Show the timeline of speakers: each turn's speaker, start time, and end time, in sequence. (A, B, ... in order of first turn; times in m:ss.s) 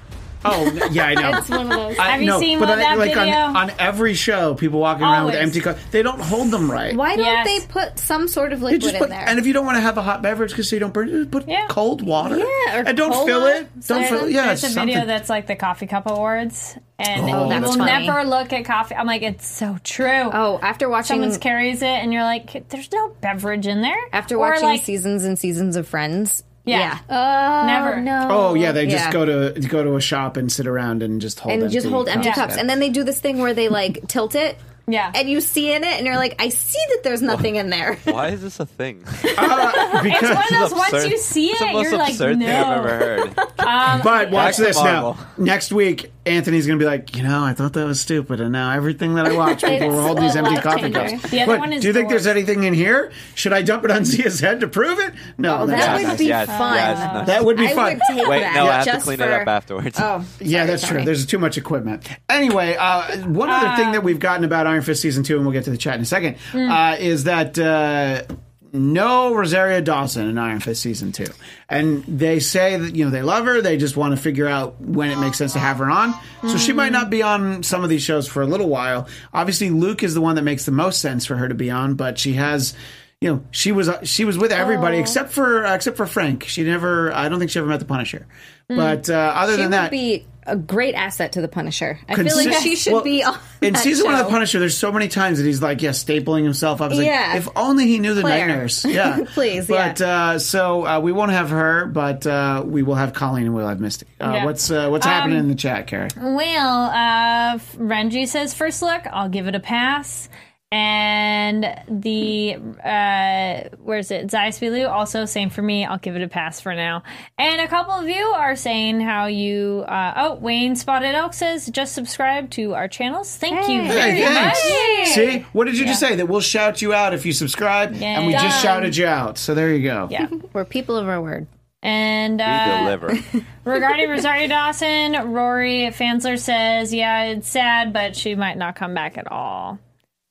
0:00.4-0:07.0 A
0:01.2-0:02.1 B
0:02.0-0:03.7 C
0:05.0-0:05.6 C
0:06.9-0:09.4 D
0:07.2-0:07.6 C
0:08.7-0:15.1 A
0:11.5-0:11.7 C
0:12.2-0:14.3 D
0:13.9-0:20.4 C
0:17.1-0:18.2 A
0:17.3-0:18.2 D
0:20.3-0:21.4 D
0:21.0-0:24.9 C
0:24.1-0:27.0 D
0:26.6-0:27.0 C
0:27.1-0:28.8 B
0:27.6-0:28.2 C
0:28.2-0:32.7 A
0:28.8-0:29.2 D
0:31.5-0:38.3 D
0:32.2-0:32.5 C
0:34.9-0:35.2 C
0:37.3-0:37.5 E
0:38.0-0:43.5 E
0:39.2-0:39.6 D
0:39.4-0:40.7 A
0:39.7-0:44.8 C
0:43.9-0:56.4 A
0:44.3-0:45.3 E
0:49.6-0:51.6 B
0:51.2-0:52.3 C
0:55.5-1:01.1 D
0:55.7-1:00.1 E
0:55.7-0:57.1 C
0:56.5-0:57.2 B
0:57.2-0:59.0 A
1:00.4-1:30.0 A
1:03.4-1:04.1 C
1:06.5-1:06.8 C
1:16.4-1:17.0 C
1:28.7-1:29.0 C
1:29.4-1:34.4 D
1:32.1-1:46.1 A
1:32.2-1:32.8 C
1:36.9-1:37.5 D
1:38.2-1:40.0 D
1:44.2-1:45.5 C
1:46.2-2:06.0 C
2:03.5-2:05.4 D
2:03.9-2:10.1 A
2:07.9-2:09.0 C
2:10.5-2:11.5 D
2:11.8-2:13.0 C
2:12.5-2:13.2 E
2:13.6-2:19.8 C